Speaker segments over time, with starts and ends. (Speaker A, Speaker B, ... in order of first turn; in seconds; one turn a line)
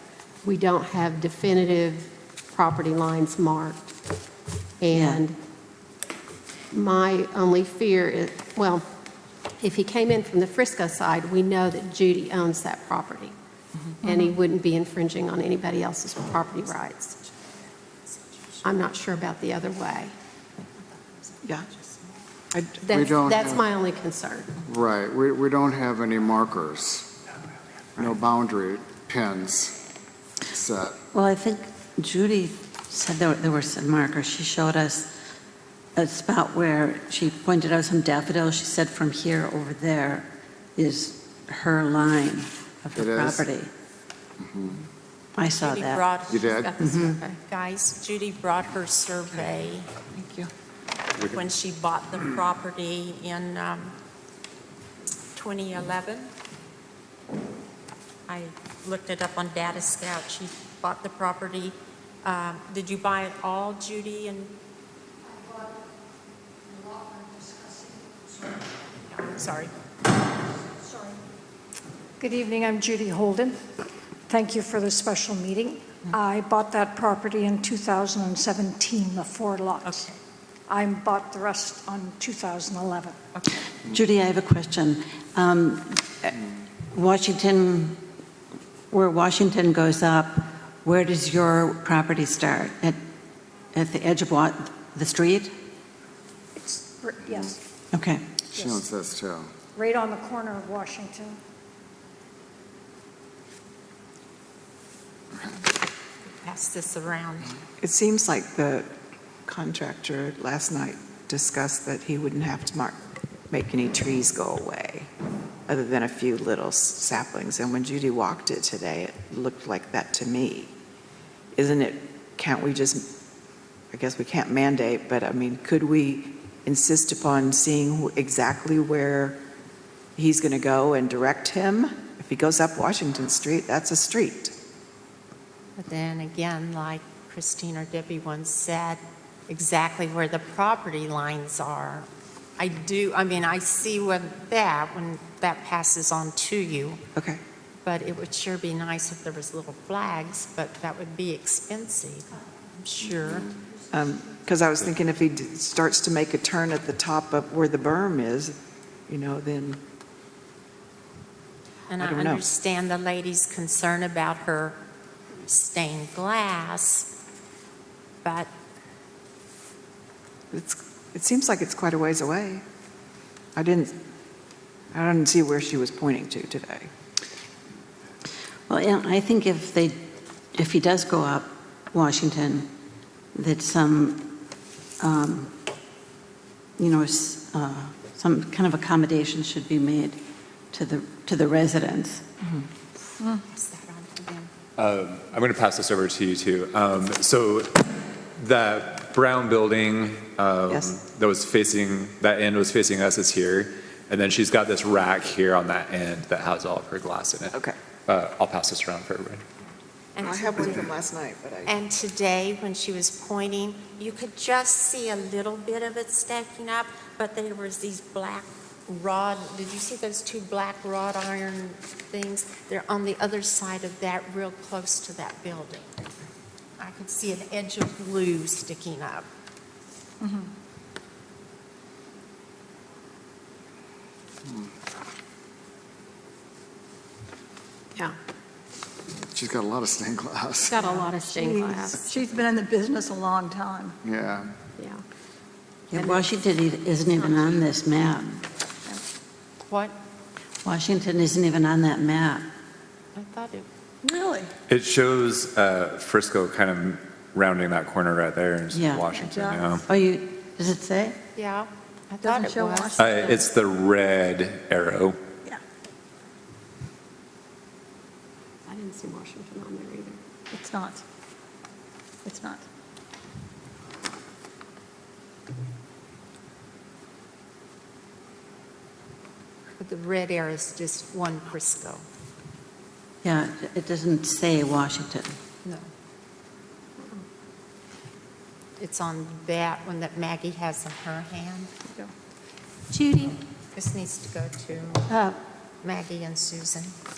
Speaker A: 0.4-3.9
Speaker A: 4.8-5.4
Speaker A: 6.7-8.8
Speaker A: 9.6-13.3
Speaker A: 14.0-17.0
Speaker B: 16.9-17.5
Speaker B: 18.1-18.6
Speaker A: 18.6-20.1
Speaker B: 20.9-22.1
Speaker C: 22.5-22.9
Speaker A: 22.8-24.5
Speaker D: 22.9-23.6
Speaker D: 24.6-27.1
Speaker D: 28.0-29.8
Speaker D: 30.5-31.0
Speaker E: 31.2-35.1
Speaker E: 36.0-40.3
Speaker E: 40.8-43.7
Speaker D: 43.0-43.5
Speaker D: 44.4-44.8
Speaker E: 45.4-46.0
Speaker B: 45.4-49.9
Speaker D: 46.3-46.7
Speaker E: 46.8-47.2
Speaker C: 50.1-50.5
Speaker B: 51.1-54.0
Speaker B: 55.3-56.3
Speaker B: 58.3-64.5
Speaker F: 65.3-65.8
Speaker F: 66.7-68.4
Speaker B: 69.1-69.7
Speaker F: 70.8-71.2
Speaker F: 72.2-73.6
Speaker F: 74.3-80.1
Speaker B: 79.8-80.2
Speaker F: 80.7-83.2
Speaker E: 84.0-86.0
Speaker E: 87.0-88.0
Speaker E: 88.9-93.0
Speaker E: 93.8-95.5
Speaker F: 96.6-97.6
Speaker D: 98.5-99.5
Speaker F: 98.5-98.8
Speaker F: 99.8-101.4
Speaker B: 106.3-107.5
Speaker C: 107.8-108.9
Speaker C: 109.5-113.0
Speaker C: 113.5-115.1
Speaker C: 115.7-120.7
Speaker C: 121.5-123.1
Speaker C: 123.9-129.4
Speaker C: 130.2-134.5
Speaker B: 135.8-147.0
Speaker C: 147.2-147.4
Speaker B: 147.8-153.5
Speaker C: 153.9-158.6
Speaker C: 159.1-159.8
Speaker B: 161.9-164.8
Speaker C: 162.0-162.4
Speaker B: 165.4-167.1
Speaker B: 168.2-168.5
Speaker C: 170.5-172.6
Speaker C: 173.6-173.9
Speaker C: 174.9-176.9
Speaker E: 178.7-179.9
Speaker E: 180.6-182.6
Speaker E: 183.4-184.2
Speaker E: 185.0-185.5
Speaker E: 186.8-190.2
Speaker E: 190.8-192.2
Speaker B: 193.4-194.5
Speaker G: 194.8-197.7
Speaker G: 198.4-207.6
Speaker C: 200.7-201.0
Speaker C: 207.5-207.8
Speaker G: 208.1-209.4
Speaker B: 210.2-210.9
Speaker C: 210.2-211.8
Speaker B: 211.7-226.0
Speaker B: 226.8-229.3
Speaker D: 239.3-240.8
Speaker A: 240.7-242.1
Speaker H: 241.3-244.0
Speaker D: 244.0-244.5
Speaker A: 244.8-245.0
Speaker A: 245.9-246.3
Speaker E: 246.0-248.4
Speaker A: 247.2-247.6
Speaker B: 249.7-250.0
Speaker E: 250.7-252.4
Speaker B: 253.2-253.7
Speaker H: 254.0-254.5
Speaker G: 254.7-259.9
Speaker E: 258.8-259.1
Speaker H: 259.1-259.8
Speaker E: 259.9-261.1
Speaker B: 261.4-263.4
Speaker H: 262.2-263.2
Speaker G: 263.0-265.2
Speaker A: 268.7-270.2
Speaker H: 270.5-271.0
Speaker H: 272.2-272.6
Speaker B: 279.8-282.0
Speaker E: 283.2-285.3
Speaker B: 288.8-291.7
Speaker A: 292.9-293.4
Speaker B: 293.7-295.1
Speaker A: 295.1-295.4
Speaker B: 295.8-296.9